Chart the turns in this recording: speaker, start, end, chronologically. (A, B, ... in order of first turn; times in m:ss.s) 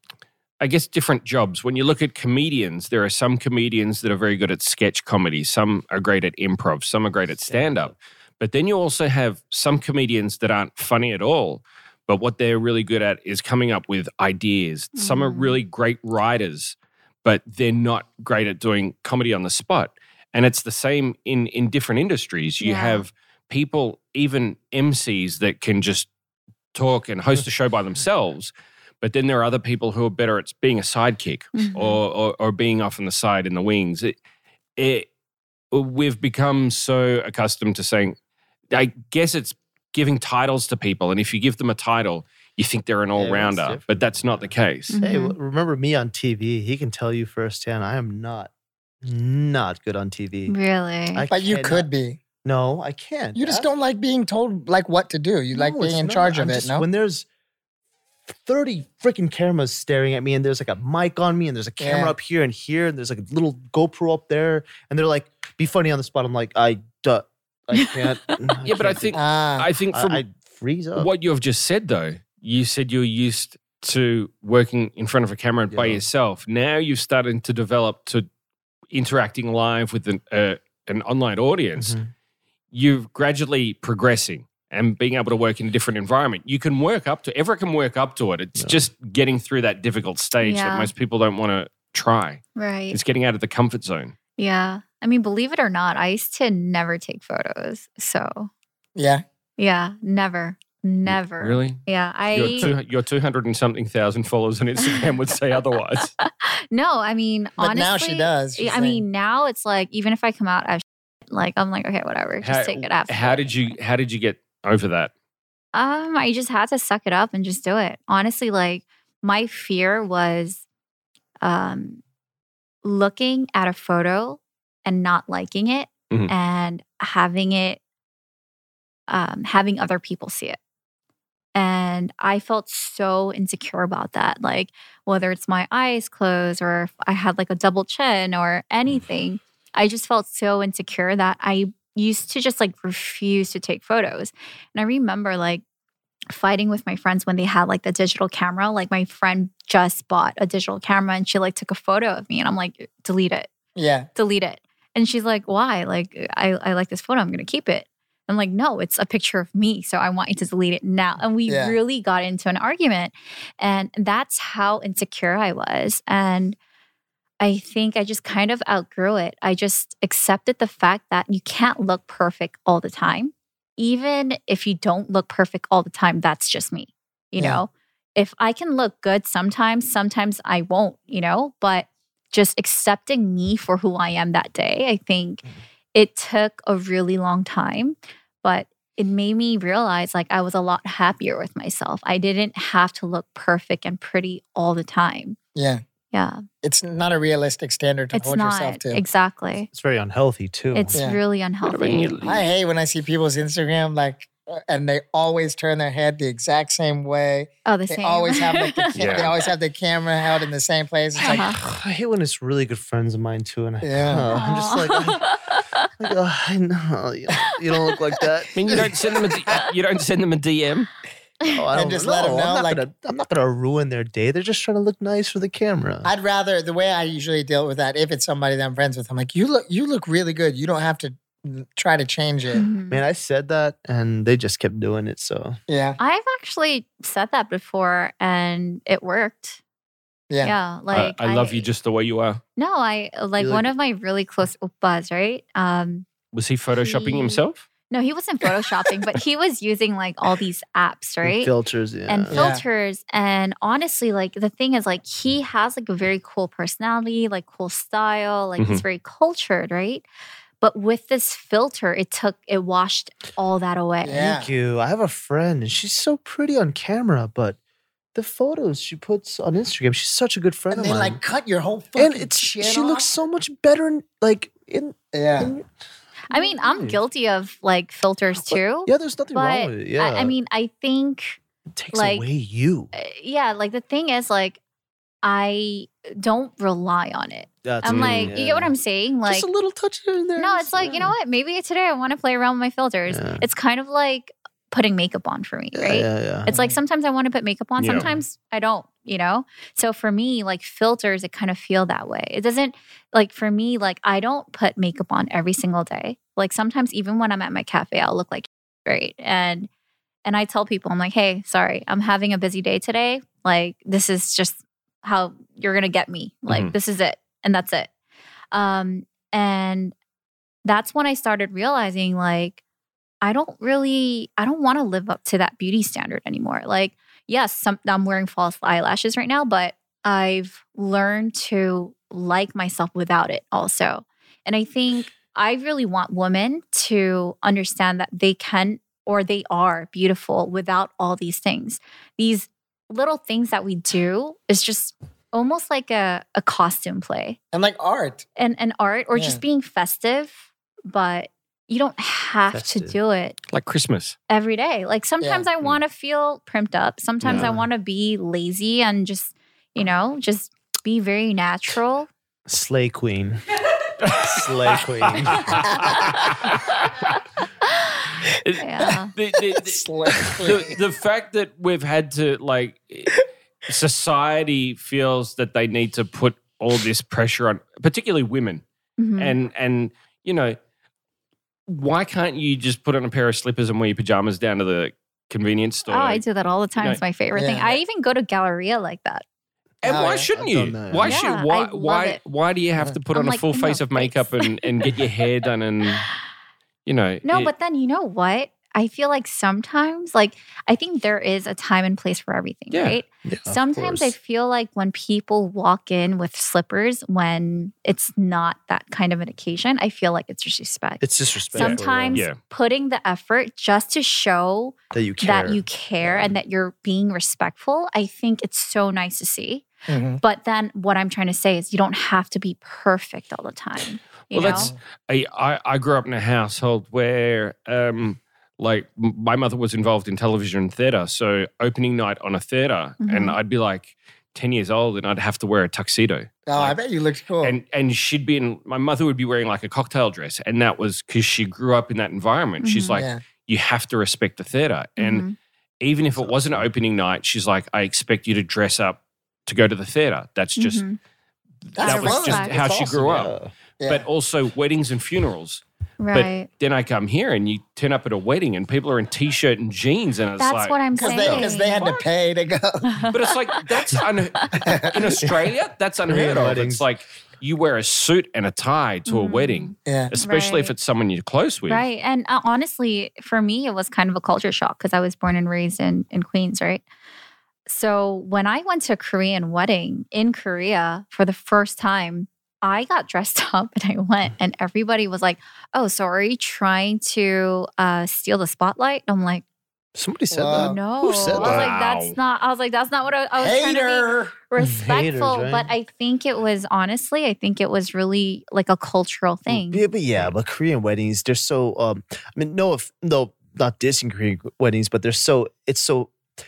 0:00.6-0:26.1 A
0:07.5-0:07.9 B
0:15.0-0:15.6 C
0:22.6-0:23.0 C
0:26.7-0:34.2 A
0:31.5-0:32.0 C
0:34.8-0:35.1 A
0:35.7-0:38.2 A
0:38.7-0:44.9 A
0:43.2-0:48.5 B
0:44.9-0:45.4 C
0:49.0-0:50.6 B
0:50.5-0:51.3 C
0:51.1-0:51.9 B
0:51.3-0:52.2 D
0:52.4-0:53.7 B
0:53.4-0:56.8 D
0:55.5-0:57.3 B
0:58.3-1:09.2 B
1:01.8-1:02.2 D
1:08.6-1:10.2 A
1:09.1-1:09.7 D
1:09.9-1:11.1 B
1:11.0-1:18.3 A
1:15.7-1:16.1 B
1:18.9-1:22.0 A
1:21.8-1:22.1 B
1:22.7-1:34.2 A
1:30.4-1:30.9 C
1:32.6-1:33.0 C
1:34.4-1:38.5 C
1:39.0-1:39.2 D
1:39.6-1:42.7 C
1:41.1-1:46.1 A
1:46.2-1:53.7 C
1:47.6-1:49.0 D
1:52.4-1:55.1 A
1:55.7-2:00.6 C
2:01.4-2:02.0 C
2:02.8-2:07.8 C
2:09.1-2:10.6 C
2:11.6-2:25.6 C
2:26.3-2:33.5 C
2:33.8-2:34.1 D
2:34.2-2:46.6 C
2:41.5-2:41.8 D
2:47.4-3:05.4 C
3:05.9-3:15.4 C
3:15.6-3:15.8 D
3:16.1-3:16.4 C
3:16.6-3:19.0 D
3:18.1-3:19.7 C
3:19.7-3:21.0 B
3:20.7-3:22.1 C
3:21.0-3:21.2 D
3:21.6-3:22.5 A
3:22.2-3:31.5 D
3:27.6-3:29.2 C
3:29.0-3:29.3 A
3:31.2-3:35.3 B
3:31.3-3:31.6 C
3:33.8-3:34.3 D
3:34.3-3:35.9 C
3:36.0-3:39.0 B
3:38.6-3:40.9 A
3:41.5-3:46.1 B
3:41.7-3:42.8 D
3:46.0-3:52.7 D
3:52.6-3:53.0 C
3:52.9-3:55.6 B
3:55.7-3:56.0 D
3:56.0-3:59.6 C
4:00.3-4:00.6 D
4:00.4-4:01.7 C
4:00.9-4:02.4 A
4:02.6-4:06.1 C
4:03.4-4:03.7 B
4:06.3-4:07.6 A
4:06.8-4:11.5 C
4:11.2-4:12.5 B
4:12.1-4:20.0 C
4:12.3-4:12.6 D
4:18.6-4:18.8 A
4:20.6-4:24.2 C
4:24.0-4:24.5 D
4:24.2-4:27.6 B
4:28.2-4:31.2 B
4:30.7-4:33.1 D
4:32.0-4:35.7 B
4:35.1-4:35.5 D
4:36.3-4:37.0 B
4:36.3-4:41.4 C
4:38.4-4:40.4 B
4:41.7-4:42.9 B
4:41.9-4:42.3 C
4:42.9-4:44.6 C
4:45.2-4:49.5 C
4:47.6-4:48.7 B
4:47.9-4:48.4 A
4:49.2-4:51.2 B
4:50.4-5:09.7 C
4:53.1-4:53.4 B
4:55.7-4:56.5 B
4:56.5-4:56.8 D
4:57.8-4:58.1 A
5:10.2-5:17.9 C
5:16.5-5:16.7 A
5:18.5-5:20.0 C
5:20.6-5:22.6 C
5:23.2-5:47.4 C
5:47.5-5:48.3 D
5:48.4-5:53.4 C
5:49.1-5:49.4 D
5:52.5-5:53.0 B
5:53.5-5:54.2 A
5:54.3-6:02.1 C
5:55.2-5:55.5 D
5:57.2-5:57.7 B
6:02.5-6:03.4 B
6:04.0-6:06.9 A
6:04.1-6:06.1 B
6:08.6-6:09.1 C
6:09.2-6:18.6 A
6:09.6-6:10.8 D
6:19.0-6:19.4 C
6:19.2-6:20.6 A
6:21.7-6:26.2 A
6:25.9-6:29.2 C
6:27.3-6:27.8 D
6:29.8-6:36.1 A
6:29.8-6:30.3 D
6:30.3-6:31.3 B
6:31.0-6:32.2 C
6:33.1-6:34.7 C
6:36.9-6:37.5 A
6:37.2-6:59.6 C
6:42.7-6:43.0 A
6:43.2-6:44.2 B
6:51.0-6:52.2 B
6:51.6-6:52.4 A
6:54.9-6:56.4 B
6:59.9-7:00.2 D
7:00.2-7:04.7 C
7:04.3-7:16.8 A
7:13.0-7:13.4 C
7:16.5-7:17.6 D
7:17.4-7:25.2 A
7:22.6-7:23.0 C
7:22.9-7:23.2 D
7:25.0-7:25.4 C
7:25.8-7:30.8 A
7:26.2-7:26.7 B
7:30.6-7:31.0 C
7:31.7-7:33.3 A
7:31.8-7:32.4 D
7:31.8-7:32.6 C
7:32.0-7:33.5 B
7:33.8-7:42.0 A
7:36.0-7:36.5 C
7:40.4-7:41.8 C
7:41.0-7:43.1 D
7:43.1-7:51.8 A
7:44.6-7:44.9 D
7:45.2-7:45.5 B
7:46.0-7:46.9 B
7:49.1-7:50.7 C
7:49.9-7:50.1 D
7:51.7-7:56.8 C
7:57.7-8:09.4 C
8:10.0-8:11.7 B
8:10.3-8:10.8 D
8:10.5-8:19.9 C
8:11.4-8:12.2 A
8:13.4-8:14.3 D
8:14.6-8:15.7 B
8:19.5-8:26.2 B